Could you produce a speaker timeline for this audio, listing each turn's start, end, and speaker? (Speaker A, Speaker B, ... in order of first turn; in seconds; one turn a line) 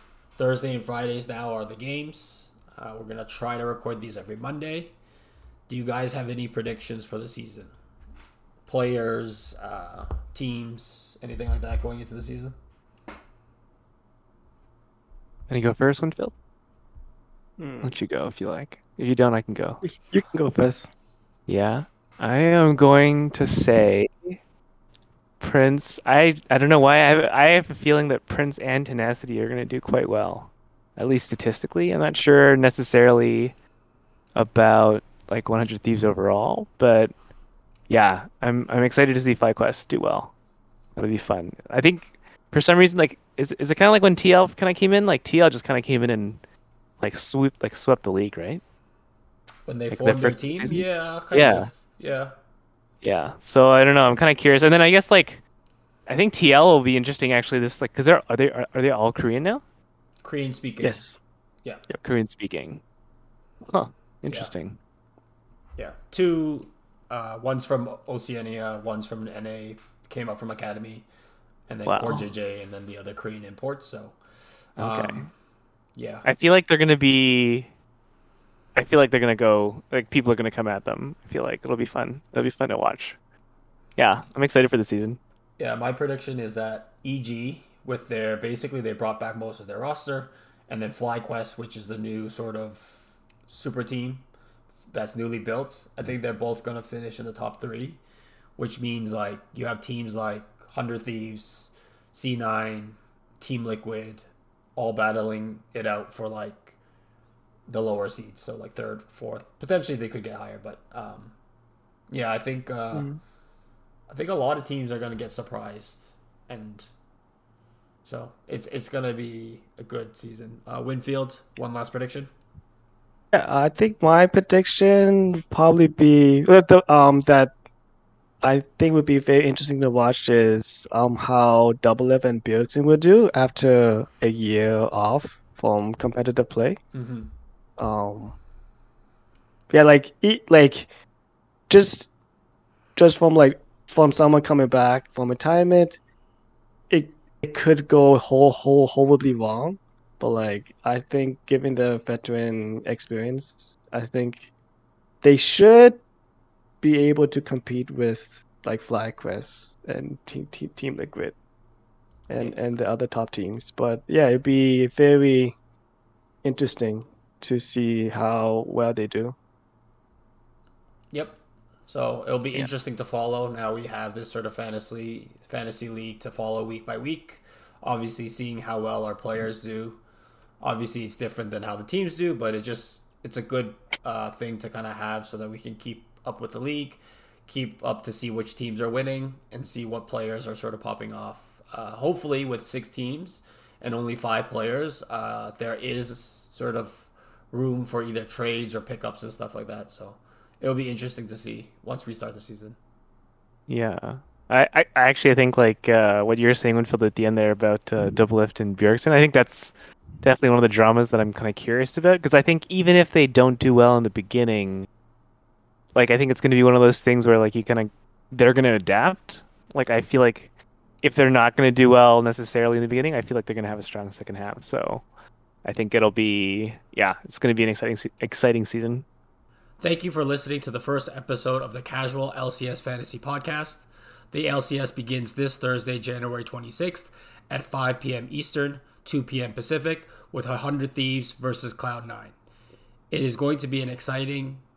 Speaker A: 0.4-4.9
Speaker A: 5.7-7.7
Speaker A: 8.7-12.6
Speaker B: 15.5-16.4
Speaker C: 17.6-17.9
Speaker B: 17.8-19.8
Speaker C: 19.8-20.9
Speaker B: 21.5-24.4
Speaker B: 25.4-33.5
Speaker B: 34.4-37.1
Speaker B: 37.9-40.3
Speaker B: 41.0-46.4
Speaker B: 47.0-48.6
Speaker A: 49.7-52.3
Speaker B: 49.9-51.7
Speaker B: 53.0-55.4
Speaker B: 56.1-59.6
Speaker A: 60.2-61.1
Speaker C: 60.8-61.2
Speaker B: 62.0-62.8
Speaker B: 63.7-64.8
Speaker A: 65.8-71.1
Speaker A: 71.7-74.2
Speaker B: 71.9-72.2
Speaker A: 74.8-75.3
Speaker B: 74.8-75.3
Speaker A: 76.0-76.2
Speaker B: 76.2-77.7
Speaker B: 78.8-83.2
Speaker B: 84.0-85.2
Speaker A: 85.6-94.3
Speaker A: 94.9-98.0
Speaker A: 98.6-104.2
Speaker A: 104.8-106.8
Speaker A: 107.7-111.3
Speaker A: 112.1-113.1
Speaker C: 112.9-113.2
Speaker A: 114.1-116.9
Speaker A: 118.0-122.3
Speaker C: 123.3-127.5
Speaker C: 128.4-136.8
Speaker A: 136.9-137.3
Speaker C: 137.8-138.4
Speaker C: 139.7-140.9
Speaker C: 141.7-142.1
Speaker C: 143.0-146.0
Speaker C: 146.9-154.5
Speaker C: 155.2-156.0
Speaker C: 156.8-161.4
Speaker C: 162.3-165.6
Speaker C: 166.4-169.3
Speaker A: 171.1-180.0
Speaker A: 180.6-202.8
Speaker B: 203.7-214.9
Speaker B: 215.9-220.5
Speaker B: 221.0-225.1
Speaker B: 225.6-229.1
Speaker A: 229.8-242.3
Speaker A: 243.1-244.6